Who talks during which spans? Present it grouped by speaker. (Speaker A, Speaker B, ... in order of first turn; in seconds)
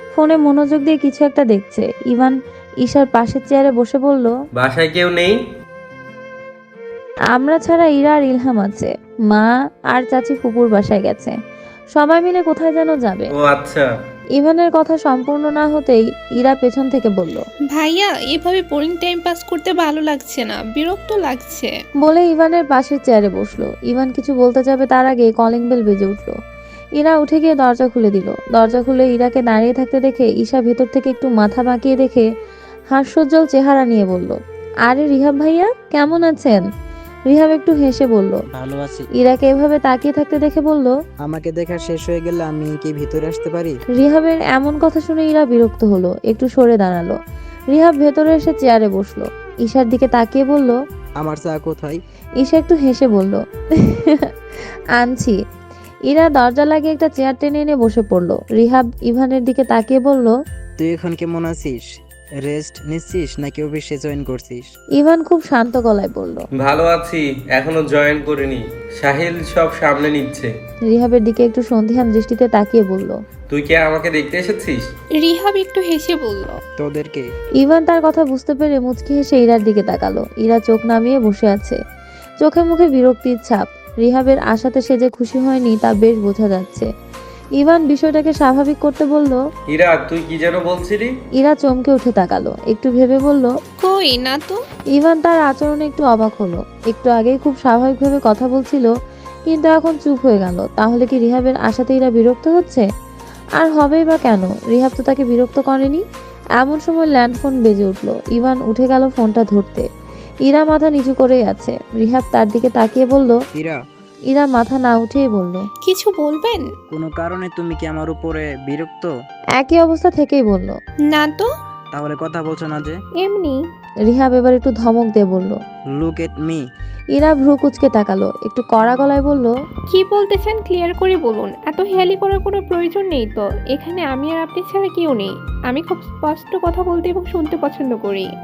Speaker A: 0.1-4.3, 7.3-11.4, 11.9-13.3, 14.4-17.4, 22.0-26.3, 27.0-32.3, 32.9-36.6, 37.3-38.4, 39.2-40.9, 44.0-47.2, 47.7-50.8, 52.4-54.3, 55.0-55.4, 56.1-60.3, 65.0-66.5, 70.9-73.2, 77.6-81.8, 82.4-86.9, 87.6-89.4, 91.4-93.5, 94.9-98.9, 99.5-102.9, 103.6-106.0, 106.6-109.9, 110.5-113.4, 114.3-115.7, 119.6-120.8, 124.1-125.6, 127.1-129.5
Speaker B: 4.5-5.4, 13.3-13.9, 66.5-70.5, 73.5-74.9, 89.7-91.1
Speaker C: 17.7-21.7, 75.2-76.5, 93.8-94.6, 115.8-116.6, 121.1-121.5, 123.2-123.6, 129.9-138.3
Speaker D: 38.5-39.1, 41.2-43.8, 51.2-52.0, 60.8-61.8, 62.4-64.7, 76.8-77.3, 113.5-113.8, 116.9-119.1, 121.9-123.0, 125.9-126.6